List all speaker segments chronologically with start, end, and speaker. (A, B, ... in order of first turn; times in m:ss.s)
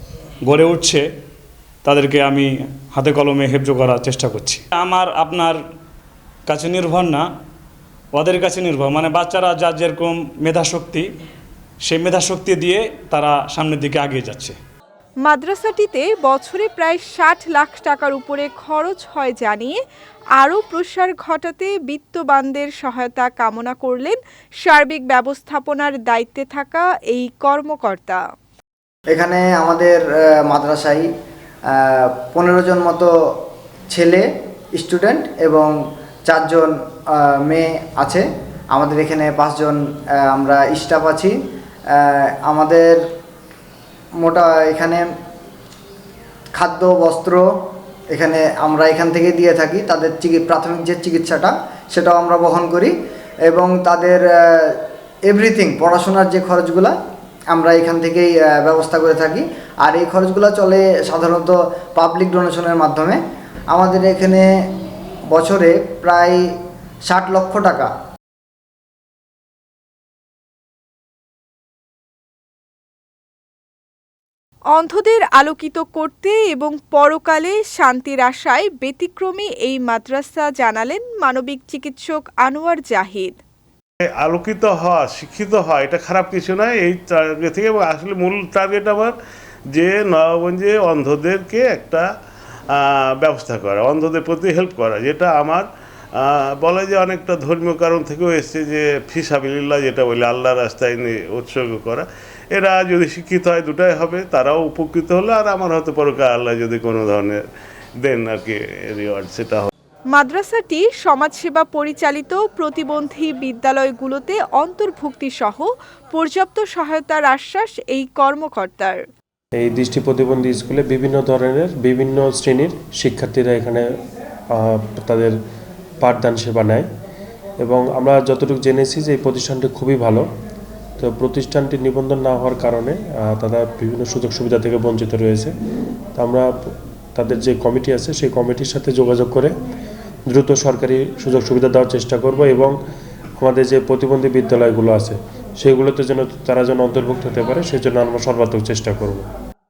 0:00.5-0:01.0 A
0:01.9-0:05.5 A
0:06.5-0:07.2 A
0:08.2-0:11.0 A
0:11.9-0:14.6 A
0:15.2-0:19.8 B
0:20.4-0:28.2 B
0:29.1-0:31.1 C
0:31.9-0:33.1 C
0:33.9-0:35.8 C
0:36.3-0:36.8 C
0:37.4-0:41.4 C
0:42.1-0:43.0 C
0:44.2-0:45.1 C
0:46.6-0:47.5 C
0:48.1-0:52.9 C
0:53.5-0:54.8 C
0:55.3-0:57.0 C
0:57.5-1:04.5 C
1:05.3-1:06.4 C
1:07.1-1:07.9 C
1:14.7-1:23.4 B
1:24.0-1:29.1 D
1:29.7-1:32.1 D
1:32.7-1:47.4 D
1:48.0-1:49.7 D
1:50.1-1:59.0 B
1:59.6-2:03.8 E
2:04.5-2:05.3 E
2:06.0-2:06.8 E
2:07.6-2:10.2 E
2:11.0-2:15.5 E
2:16.2-2:16.5 E
2:17.2-2:19.5 E
2:20.3-2:22.7 E
2:23.4-2:29.3 E